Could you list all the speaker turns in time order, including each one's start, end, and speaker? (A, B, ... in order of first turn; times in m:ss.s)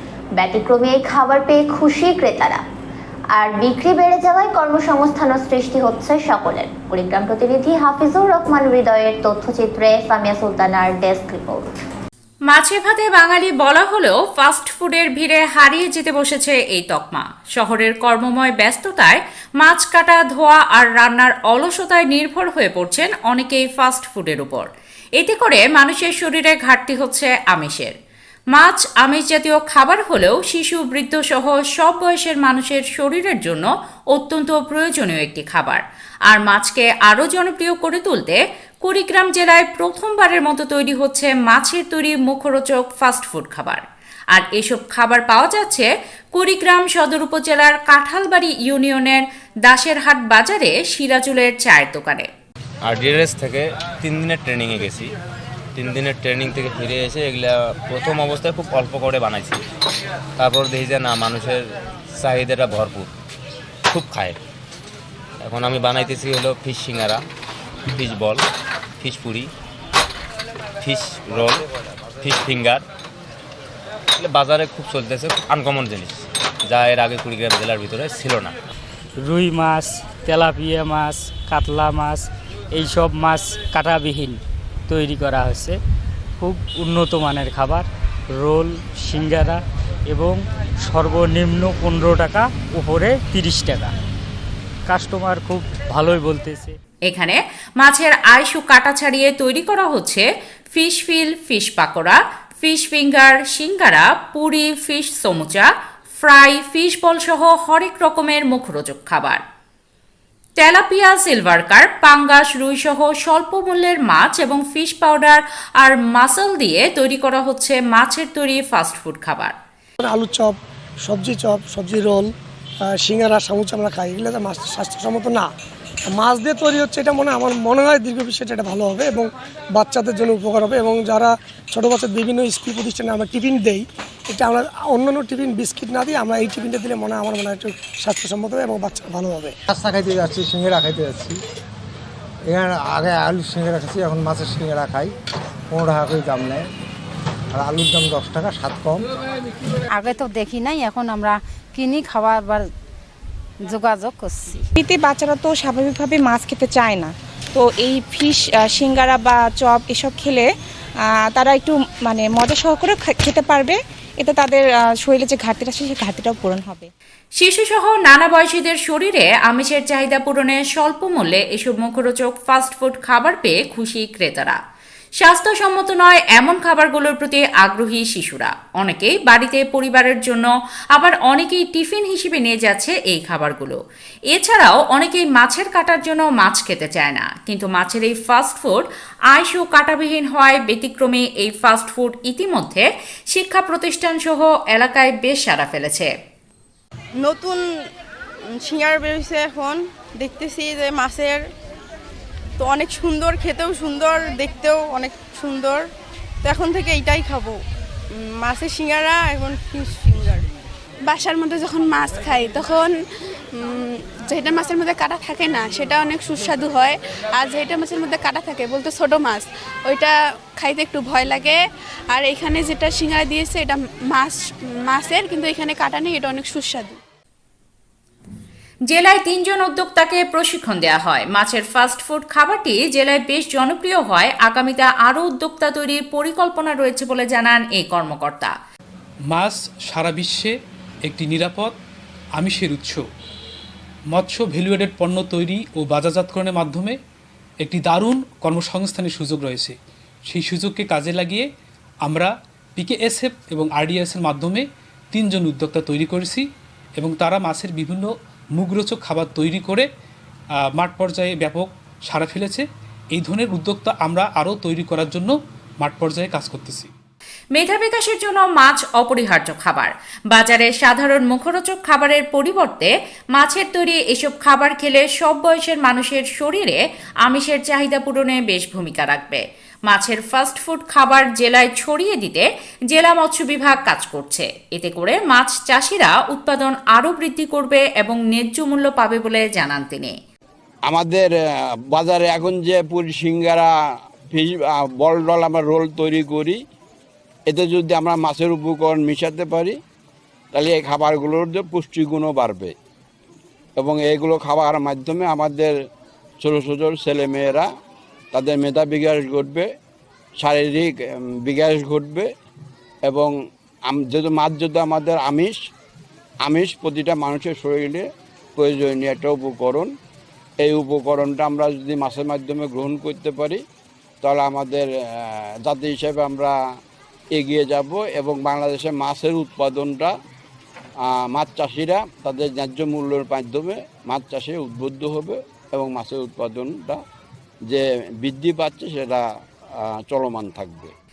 0:00.4-0:02.6 A
0:03.3-0:11.7 A
0:12.5-0:28.0 B
0:28.5-0:52.3 B
0:52.9-0:55.0 C
0:55.8-0:59.6 C
1:00.4-1:01.6 C
1:02.2-1:03.0 C
1:03.9-1:04.3 C
1:05.5-1:07.2 C
1:08.0-1:08.4 C
1:09.0-1:09.4 C
1:10.8-1:11.6 C
1:12.2-1:12.8 C
1:14.2-1:16.1 C
1:16.7-1:18.5 C
1:19.2-1:25.8 D
1:26.4-1:33.9 D
1:34.9-1:36.8 D
1:37.0-1:49.4 B
1:50.6-1:59.5 B
2:00.0-2:00.5 E
2:01.0-2:02.3 E
2:03.0-2:05.5 E
2:06.1-2:19.5 E
2:19.7-2:21.4 F
2:22.5-2:25.1 F
2:25.7-2:26.7 F
2:27.5-2:29.0 F
2:30.0-2:32.7 G
2:33.7-2:34.6 G
2:34.8-2:40.5 H
2:41.1-2:46.9 H
2:47.4-2:54.6 B
2:55.2-3:16.1 B
3:17.2-3:17.6 I
3:18.5-3:21.5 I
3:22.6-3:25.9 I
3:26.4-3:30.5 I
3:31.0-3:47.0 J
3:48.9-3:58.5 B
3:59.3-4:00.5 K
4:01.0-4:01.7 K
4:02.4-4:03.0 K
4:04.1-4:07.0 K
4:07.6-4:09.7 K
4:10.3-4:11.5 K
4:12.0-4:16.4 K
4:17.0-4:19.9 K
4:20.8-4:26.9 K
4:27.5-4:50.1 B
4:50.9-4:51.3 L
4:51.9-4:53.7 L
4:54.3-4:56.6 L
4:57.5-4:59.8 L
5:00.5-5:02.7 L
5:03.8-5:05.7 L
5:06.4-5:07.7 L
5:08.3-5:09.6 L
5:10.4-5:10.9 L
5:11.4-5:12.3 L
5:13.9-5:15.6 L
5:16.4-5:18.0 L
5:18.6-5:19.9 L
5:20.6-5:23.6 L
5:24.2-5:26.5 L
5:27.3-5:30.1 L
5:31.1-5:37.0 L
5:37.7-5:39.2 L
5:39.8-5:40.9 L